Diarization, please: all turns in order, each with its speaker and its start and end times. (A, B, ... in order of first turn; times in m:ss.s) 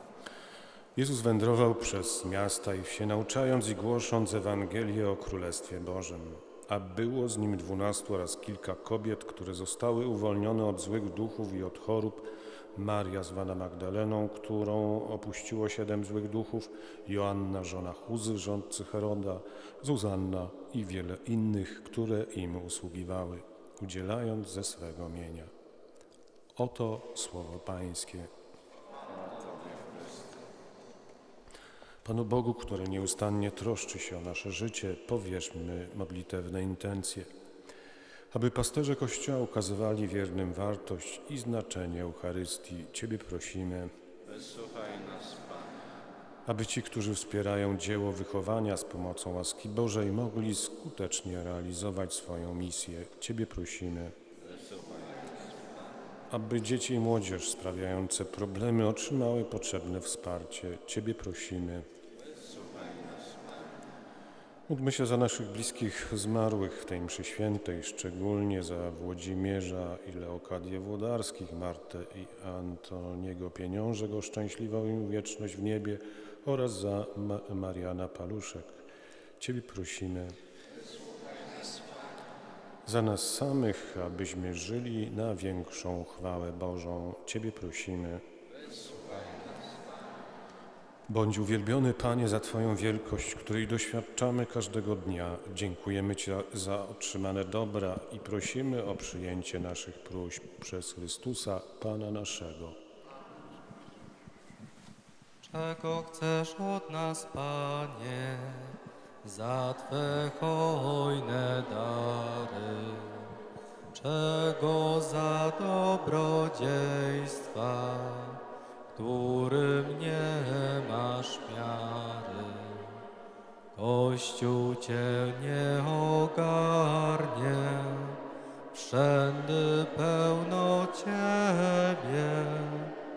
0:00.9-0:25.5 A
0:26.6-0:28.3 A
0:32.0-0:37.3 A
0:38.3-0:43.9 A
0:44.3-0:45.7 B
0:46.4-0:54.2 A
0:54.4-0:55.2 B
0:56.3-1:01.8 A
1:02.6-1:03.1 B
1:04.7-1:18.8 A
1:19.4-1:20.4 A
1:22.8-1:28.2 A
1:28.9-1:29.5 B
1:31.1-1:42.8 A
1:45.4-1:53.3 C
1:53.9-1:58.4 C
1:58.9-2:03.0 C
2:03.8-2:08.2 C
2:08.7-2:12.9 C